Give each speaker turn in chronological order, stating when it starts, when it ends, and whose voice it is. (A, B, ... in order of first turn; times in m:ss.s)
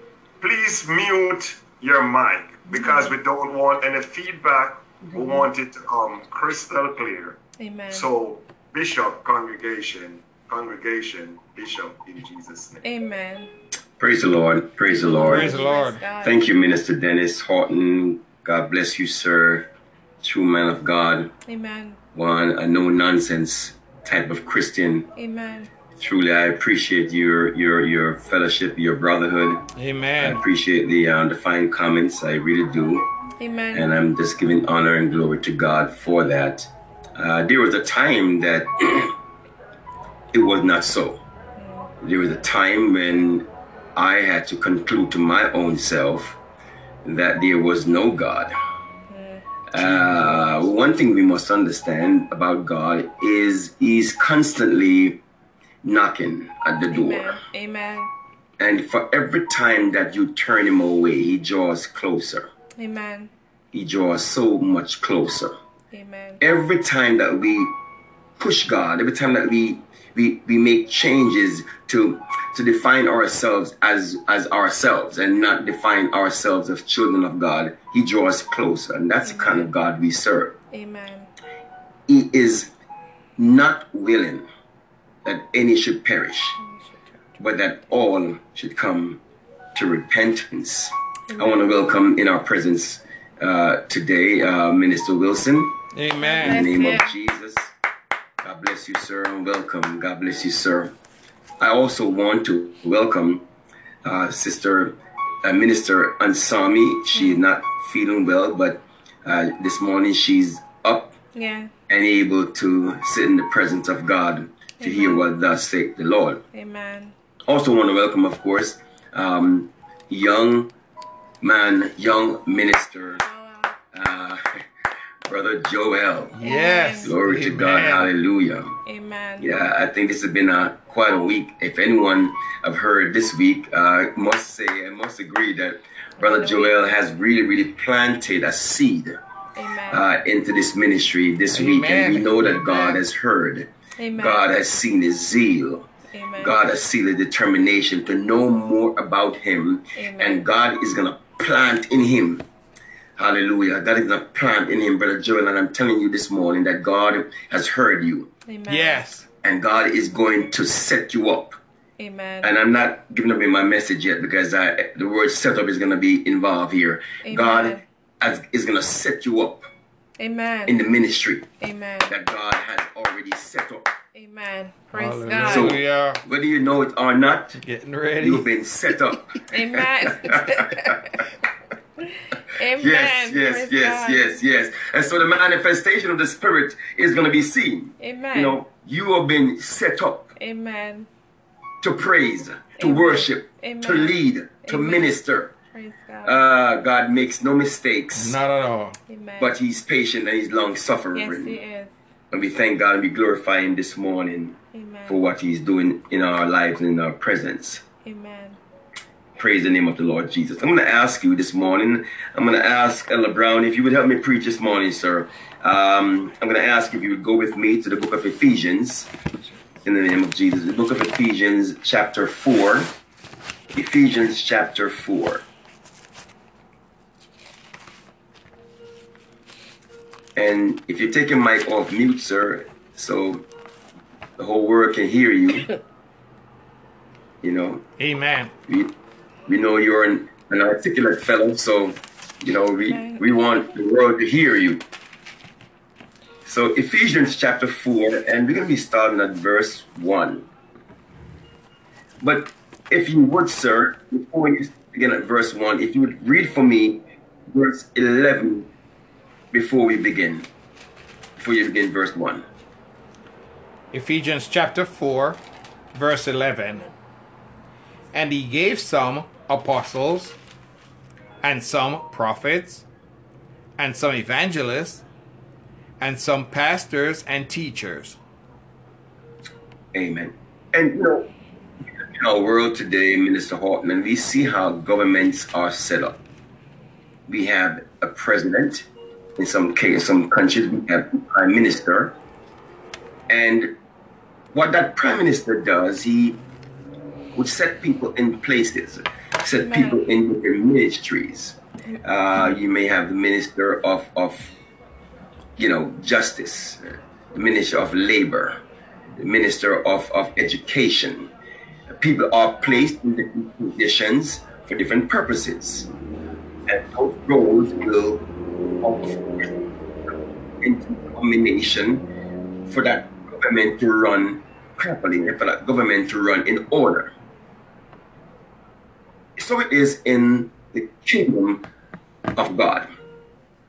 0:00.4-0:07.4 A
0:02.7-0:03.1 B
0:07.6-0:08.1 B
0:07.9-0:12.8 A
0:12.8-0:13.5 B
0:14.0-0:15.6 C
0:14.9-0:16.4 B
0:15.2-0:16.0 D
0:16.2-0:19.7 C
0:20.2-0:21.3 C
0:21.4-0:22.0 B
0:22.1-0:25.1 C
0:25.2-0:25.7 B
0:26.0-0:33.0 C
0:29.8-0:30.4 D
0:33.4-0:33.9 B
0:33.7-0:39.1 C
0:40.3-0:41.2 C
0:41.6-0:41.9 B
0:42.0-0:46.4 C
0:47.0-0:48.5 C
0:49.1-0:49.4 B
0:49.7-0:55.2 C
0:49.8-0:50.5 D
0:55.8-0:57.4 C
0:56.9-0:58.1 B
0:58.6-1:02.5 C
1:02.8-1:03.3 B
1:03.7-1:05.5 C
1:05.9-1:06.4 B
1:06.4-1:07.7 C
1:08.4-1:20.5 C
1:19.2-1:19.7 B
1:20.7-1:21.3 B
1:22.1-1:22.7 C
1:23.4-1:24.4 C
1:25.2-1:26.6 C
1:26.6-1:27.0 B
1:27.4-1:29.2 C
1:29.7-1:35.8 C
1:31.3-1:31.7 B
1:35.9-1:36.7 D
1:36.2-1:37.1 B
1:36.4-1:37.7 C
1:38.4-1:40.9 C
1:41.6-1:43.4 C
1:44.0-1:51.1 C
1:47.1-1:47.4 B
1:51.3-1:51.7 B
1:51.9-1:56.4 C
1:54.8-1:55.3 B
1:56.5-1:57.1 B
1:57.5-2:00.7 C
2:01.4-2:03.2 C
2:03.2-2:03.8 B
2:03.9-2:04.4 C
2:05.2-2:08.8 C
2:06.3-2:08.1 D
2:06.4-2:07.1 B
2:08.8-2:09.6 B
2:09.4-2:19.2 C
2:16.2-2:16.7 B
2:19.5-2:20.0 B
2:19.9-2:25.8 C
2:21.5-2:23.0 D
2:24.0-2:24.4 B
2:26.1-2:26.6 B
2:26.4-2:32.4 C
2:29.9-2:30.4 B
2:33.2-2:38.3 C
2:38.5-2:39.1 B
2:38.7-2:39.2 D
2:39.4-2:41.6 C
2:42.0-2:42.5 B
2:42.4-2:49.7 C
2:47.2-2:47.8 B
2:50.2-2:50.8 B
2:50.7-2:51.4 C
2:51.6-2:52.1 B
2:52.0-2:53.9 C
2:54.1-2:55.8 B
2:54.9-2:56.2 D
2:55.4-2:57.6 C
2:57.6-2:58.5 D
2:58.2-3:01.2 C
2:59.5-3:01.2 B
3:02.0-3:04.4 B
3:02.8-3:10.3 C
3:08.0-3:08.6 B
3:10.4-3:11.1 B
3:11.8-3:15.5 C
3:12.8-3:15.1 B
3:15.7-3:16.4 B
3:16.2-3:18.4 C
3:18.1-3:19.0 D
3:19.1-3:19.6 B
3:19.4-3:21.6 C
3:21.1-3:21.9 B
3:22.3-3:27.8 C
3:24.7-3:25.2 B
3:28.0-3:28.6 B
3:29.4-3:39.1 C
3:39.8-3:42.9 C
3:43.7-3:45.4 C
3:50.4-3:53.4 C
3:54.4-3:55.7 C
3:57.4-3:57.8 C
3:58.0-3:58.5 D
3:59.5-4:04.8 C
4:02.8-4:03.3 B
4:06.4-4:10.4 C
4:12.2-4:18.7 C
4:19.5-4:20.5 C
4:21.4-4:22.4 C
4:23.9-4:25.4 D
4:25.9-4:26.9 D
4:28.1-4:30.4 D
4:31.4-4:32.8 D
4:33.8-4:35.0 D
4:36.0-4:38.2 D
4:39.9-4:41.3 C
4:42.0-4:46.2 C
4:47.3-4:48.8 C
4:49.4-4:52.1 C
4:53.3-4:53.7 C
4:54.5-4:56.4 C
4:57.3-5:04.5 C
4:59.6-5:00.0 B
5:05.6-5:08.6 C
5:09.2-5:11.3 C
5:11.9-5:15.9 C
5:16.7-5:18.2 C
5:18.8-5:19.5 C
5:20.6-5:22.0 C
5:22.7-5:27.1 C
5:29.4-5:31.6 C
5:32.4-5:32.9 C